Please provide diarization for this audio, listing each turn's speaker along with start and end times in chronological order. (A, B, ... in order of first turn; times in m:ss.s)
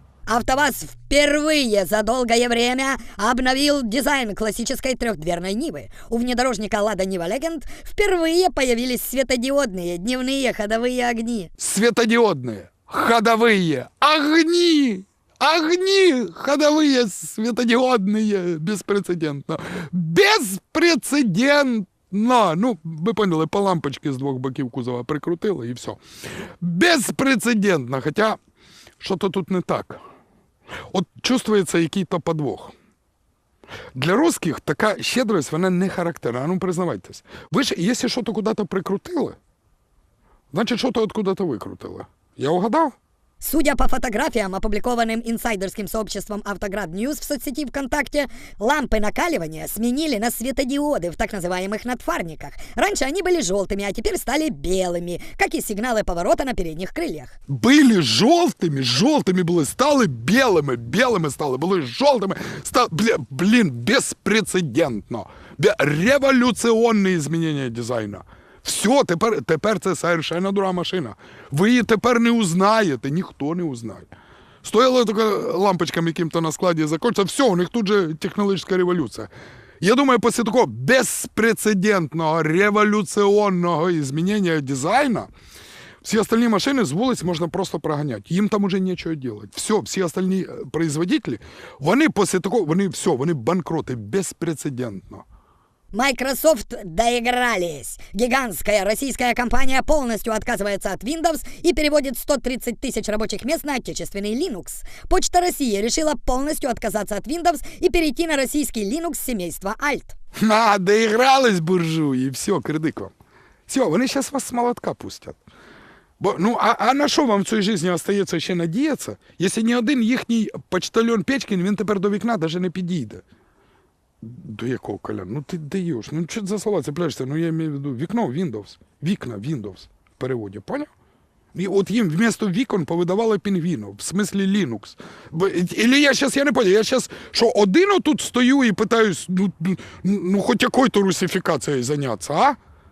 0:00.3-0:11.5 A
0:11.6-0:26.0 B
0:26.6-0:28.4 B
0:29.0-0:30.0 B
0:30.9-0:32.7 B
0:34.0-0:39.4 B
0:40.5-0:43.0 B
0:43.4-0:57.3 A
0:57.5-1:14.1 B
1:14.6-1:19.3 B
1:19.8-1:25.3 B
1:26.0-1:35.2 B
1:35.9-1:50.2 A
1:50.4-1:53.1 B
1:53.7-1:55.4 B
1:56.2-2:03.2 B
2:04.2-2:10.9 B
2:11.5-2:22.6 B